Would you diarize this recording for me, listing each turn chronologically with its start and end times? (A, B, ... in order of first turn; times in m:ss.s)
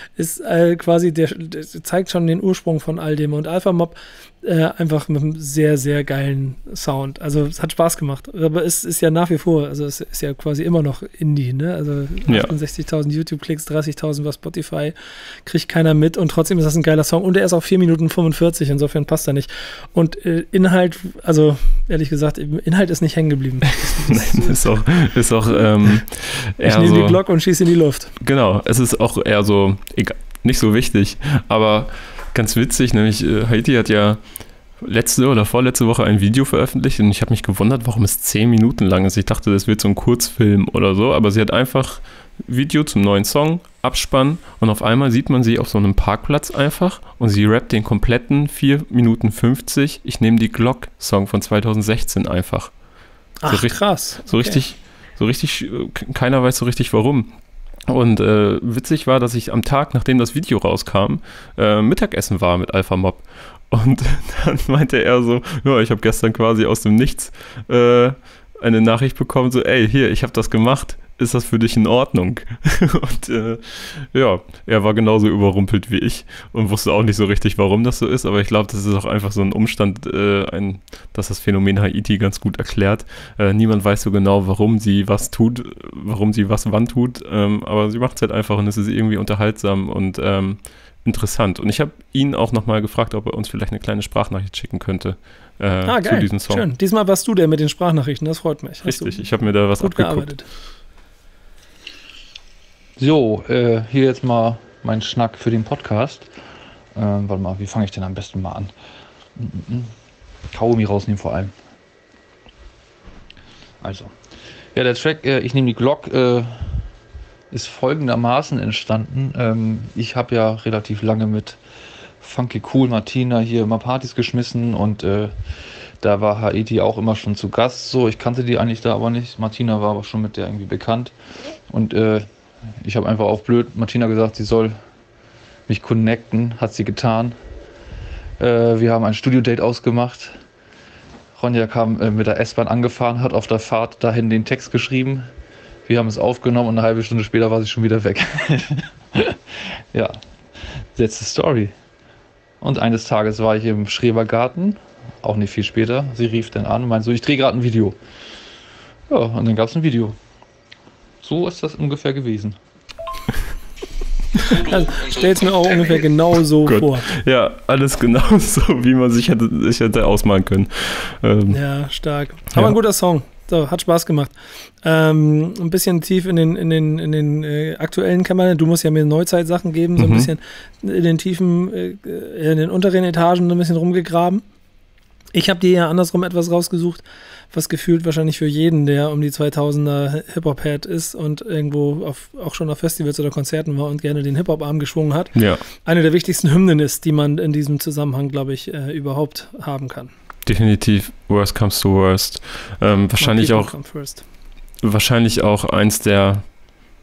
0:00.2-0:24.6 A
0:23.8-0:27.2 B
0:26.6-0:28.1 A
0:28.2-0:34.2 B
0:34.8-0:52.7 B
0:53.4-0:54.6 A
0:53.5-0:57.3 B
0:57.9-1:36.6 B
1:35.8-1:39.2 A
1:38.8-1:40.3 B
1:39.8-1:40.5 A
1:43.0-1:46.3 C
1:46.9-1:48.7 C
1:49.4-1:49.9 C
1:50.5-1:51.5 C
1:53.8-1:54.2 C
1:54.7-1:56.9 C
1:57.5-2:01.6 C
2:02.2-2:05.3 C
2:06.0-2:11.1 C
2:11.7-2:12.3 C
2:12.8-2:14.8 C
2:15.7-2:17.4 C
2:18.4-2:20.4 C
2:21.3-2:25.3 C
2:25.8-2:31.7 C
2:32.6-2:38.0 C
2:39.1-2:40.2 C
2:41.2-2:42.6 C
2:44.4-2:47.1 A
2:46.6-2:51.6 B
2:51.5-3:04.4 A
3:00.0-3:00.3 B
3:05.3-3:20.1 A
3:15.3-3:15.6 B
3:20.4-3:23.7 B
3:23.2-3:24.2 A
3:24.8-3:26.5 B